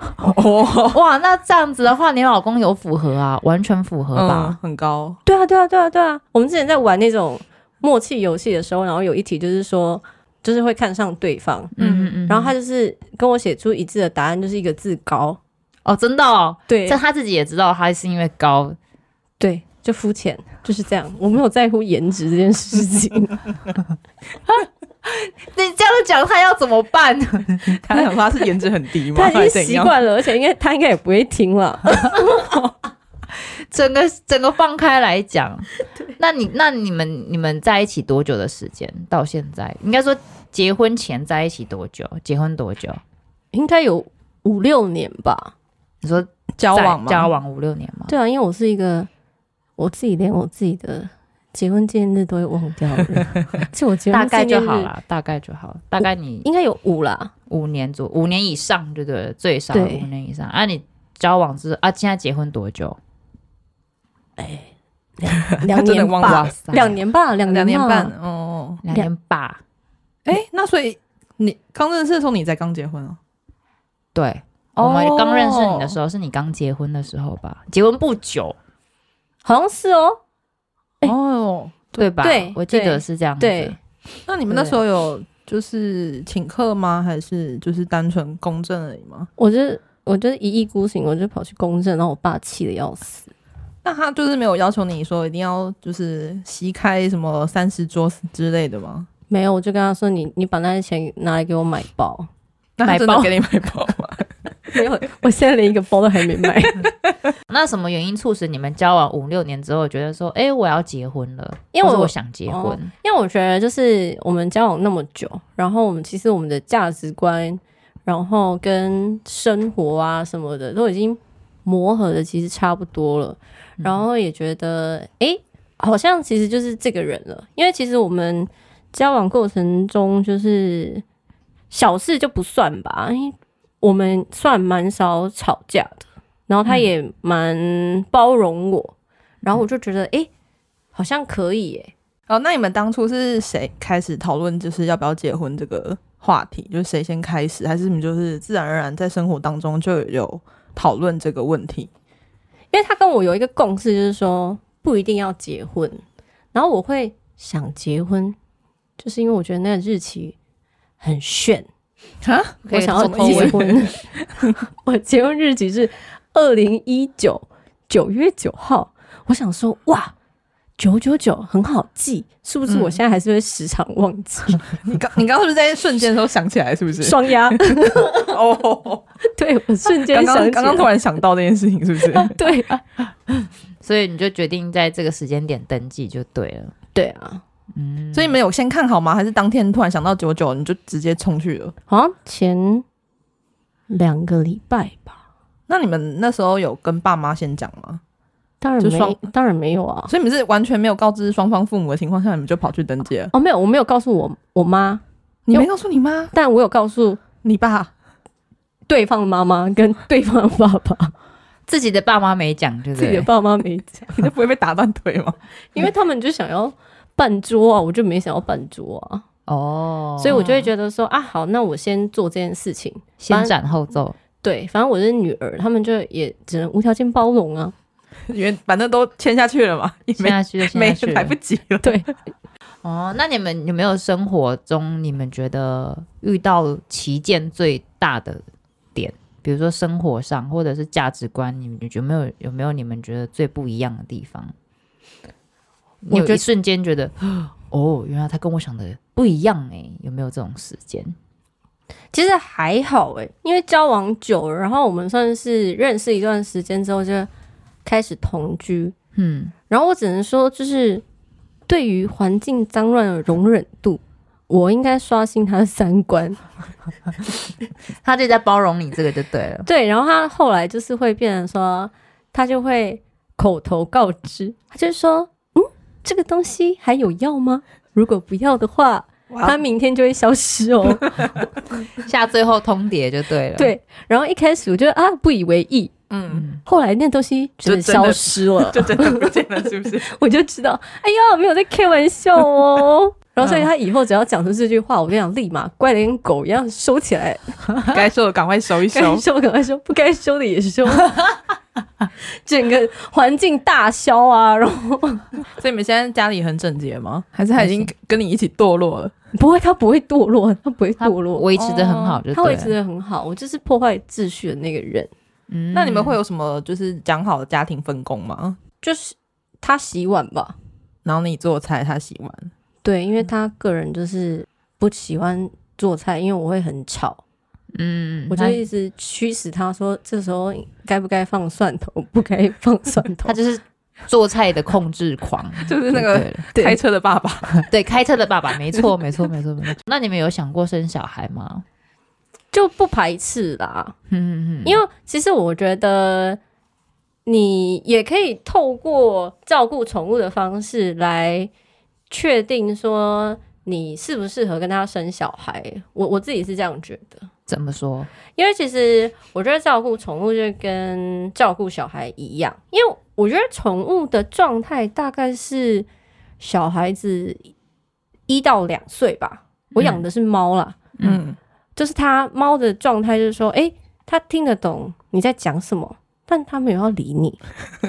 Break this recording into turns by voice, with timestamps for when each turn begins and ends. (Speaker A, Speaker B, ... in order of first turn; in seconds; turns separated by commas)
Speaker A: 0.2-1.0, Speaker B: 0.9-4.6, Speaker A: 4.1-5.2, Speaker C: 5.2-11.7, Speaker B: 11.8-12.5, Speaker A: 11.8-12.2, Speaker C: 12.3-15.4, Speaker B: 15.8-18.8, Speaker C: 16.7-17.0, Speaker C: 19.4-23.5, Speaker B: 24.5-28.0, Speaker A: 27.8-29.9, Speaker C: 29.1-32.2, Speaker B: 33.7-43.0, Speaker C: 43.5-45.5, Speaker B: 46.0-48.1, Speaker A: 46.6-47.3, Speaker C: 48.1-49.1, Speaker C: 49.8-54.9, Speaker B: 54.1-56.5, Speaker C: 56.0-57.3, Speaker B: 57.5-63.0, Speaker C: 59.7-60.0, Speaker C: 64.4-68.1, Speaker A: 65.7-66.5, Speaker B: 66.2-67.0, Speaker A: 67.4-68.8, Speaker B: 68.8-69.6, Speaker A: 70.2-73.2, Speaker B: 74.1-78.6, Speaker A: 74.8-76.0, Speaker C: 79.4-80.2, Speaker A: 81.0-82.1, Speaker B: 82.0-83.8, Speaker C: 82.2-83.8, Speaker A: 84.3-89.3, Speaker C: 89.4-93.3, Speaker A: 93.8-99.1, Speaker C: 99.3-102.3, Speaker A: 102.8-104.3, Speaker B: 102.8-103.3, Speaker C: 104.7-106.9, Speaker B: 107.5-112.9, Speaker C: 111.7-131.0, Speaker C: 131.7-138.9, Speaker C: 139.4-140.3, Speaker C: 140.9-141.9, Speaker A: 142.3-151.9, Speaker C: 152.7-156.0, Speaker C: 156.5-158.3, Speaker C: 159.0-160.3, Speaker C: 161.0-161.7, Speaker A: 162.2-164.6, Speaker B: 162.7-163.7, Speaker C: 162.7-164.0, Speaker C: 164.8-170.1, Speaker C: 170.8-174.6, Speaker A: 172.7-172.9, Speaker A: 174.8-179.0, Speaker C: 177.0-178.1, Speaker C: 179.3-180.9, Speaker A: 179.9-182.3, Speaker C: 182.2-182.8, Speaker B: 183.8-186.7, Speaker C: 186.9-187.4, Speaker B: 187.7-188.3, Speaker A: 188.1-191.7, Speaker C: 191.9-192.8, Speaker C: 193.9-195.2, Speaker A: 195.7-198.0, Speaker C: 198.6-200.1, Speaker A: 198.8-199.2, Speaker A: 200.1-203.3, Speaker C: 203.3-205.0, Speaker A: 205.5-206.3, Speaker C: 206.3-207.2, Speaker A: 207.4-207.9, Speaker C: 208.9-211.1, Speaker B: 211.7-213.3, Speaker C: 212.9-214.3, Speaker A: 214.1-215.4, Speaker C: 215.7-219.2, Speaker B: 219.5-220.4, Speaker C: 220.2-223.5, Speaker A: 220.3-220.7, Speaker B: 223.2-224.2, Speaker C: 224.4-227.7, Speaker A: 228.3-232.1, Speaker B: 230.2-231.3, Speaker B: 232.8-238.4, Speaker B: 238.9-244.5, Speaker B: 246.1-247.2, Speaker C: 246.1-246.4, Speaker B: 247.7-251.2, Speaker C: 252.1-257.3, Speaker C: 257.8-258.9, Speaker B: 259.1-259.5, Speaker C: 259.7-261.0, Speaker C: 261.7-266.4, Speaker B: 268.0-269.7, Speaker C: 269.6-281.4, Speaker A: 279.3-279.6, Speaker B: 282.0-283.7, Speaker C: 283.6-285.9, Speaker A: 286.1-286.4, Speaker B: 286.3-286.6, Speaker C: 286.6-289.3, Speaker A: 287.6-290.1, Speaker C: 290.0-297.6, Speaker A: 297.9-299.2, Speaker C: 298.9-301.2, Speaker C: 302.4-305.3, Speaker A: 305.6-309.1, Speaker B: 307.6-307.9, Speaker C: 309.3-311.4, Speaker B: 311.0-312.7, Speaker A: 311.6-312.2, Speaker C: 312.3-315.1, Speaker B: 315.5-316.2, Speaker A: 315.7-318.6, Speaker C: 318.8-320.5, Speaker A: 321.0-322.5, Speaker C: 322.8-327.2, Speaker B: 327.7-328.6, Speaker C: 328.3-333.3, Speaker B: 333.2-336.5, Speaker A: 335.6-337.6, Speaker B: 337.5-341.6, Speaker C: 342.5-343.9, Speaker B: 344.1-344.8, Speaker C: 344.6-346.4, Speaker C: 347.2-351.5, Speaker C: 352.1-357.3, Speaker B: 357.5-358.1, Speaker C: 358.4-365.9, Speaker C: 366.4-367.5, Speaker C: 368.3-370.8, Speaker B: 369.8-370.0, Speaker A: 371.0-371.4, Speaker C: 371.8-377.4